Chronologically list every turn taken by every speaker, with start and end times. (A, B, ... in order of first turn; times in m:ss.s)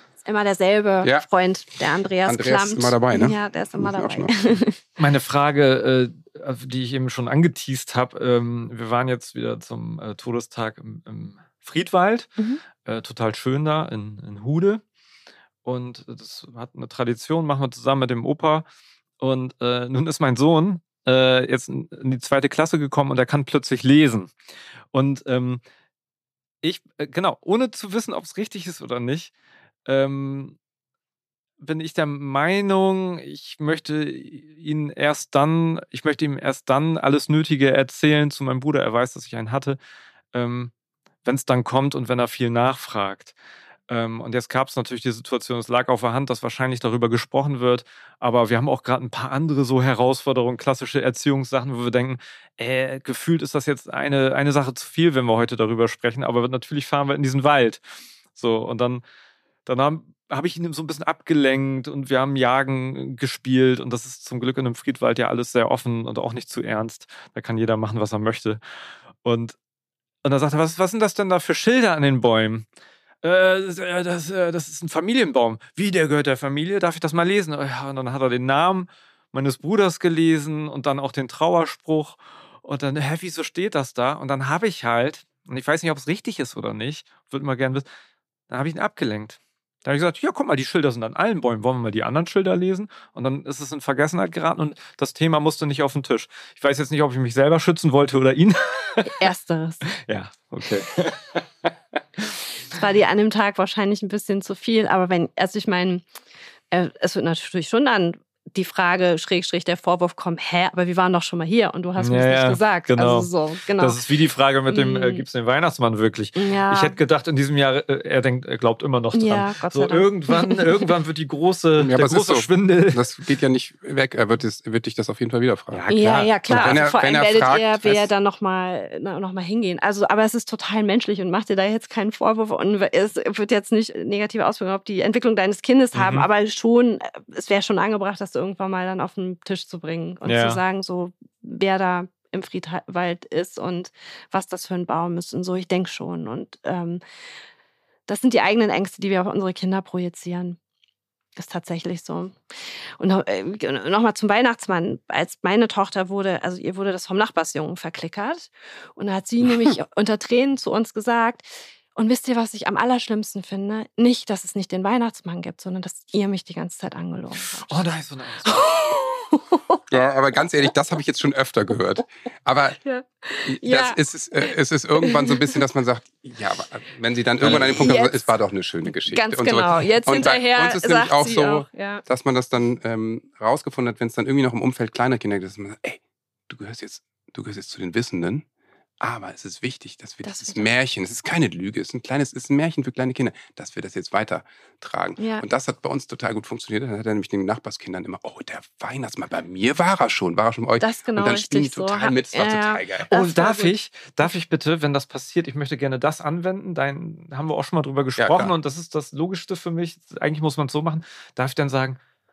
0:00.2-0:04.8 A
0:02.2-0:04.3 B
0:05.0-0:12.3 C
0:12.8-0:14.8 C
0:15.6-0:18.6 C
0:19.2-0:24.3 C
0:24.9-0:25.6 C
0:26.6-0:29.3 C
0:29.9-0:30.6 C
0:31.6-0:39.8 C
0:40.3-0:40.7 C
0:41.2-0:43.3 C
0:43.9-0:57.8 C
0:58.4-0:59.0 C
0:59.7-1:08.6 C
1:09.2-1:09.6 C
1:10.2-1:12.7 C
1:13.2-1:27.9 C
1:28.5-1:39.2 C
1:39.0-1:39.8 A
1:39.8-1:41.5 C
1:42.7-1:46.1 A
1:46.7-1:54.0 A
1:52.0-2:03.1 C
1:54.7-1:55.2 A
1:56.4-1:57.0 A
1:59.1-2:00.9 A
2:01.8-2:08.1 B
2:05.7-2:06.8 C
2:05.9-2:27.0 A
2:15.9-2:16.3 C
2:20.2-2:20.6 C
2:28.1-2:30.6 A
2:31.4-2:50.0 A
2:47.5-2:48.7 C
2:49.9-2:52.8 B
2:52.8-2:55.6 A
2:53.4-3:08.4 B
2:57.4-2:58.3 A
2:59.1-3:02.0 A
3:09.0-3:23.1 B
3:10.2-3:10.7 A
3:15.2-3:15.4 A
3:20.8-3:23.8 A
3:23.1-3:32.0 C
3:28.2-3:28.5 B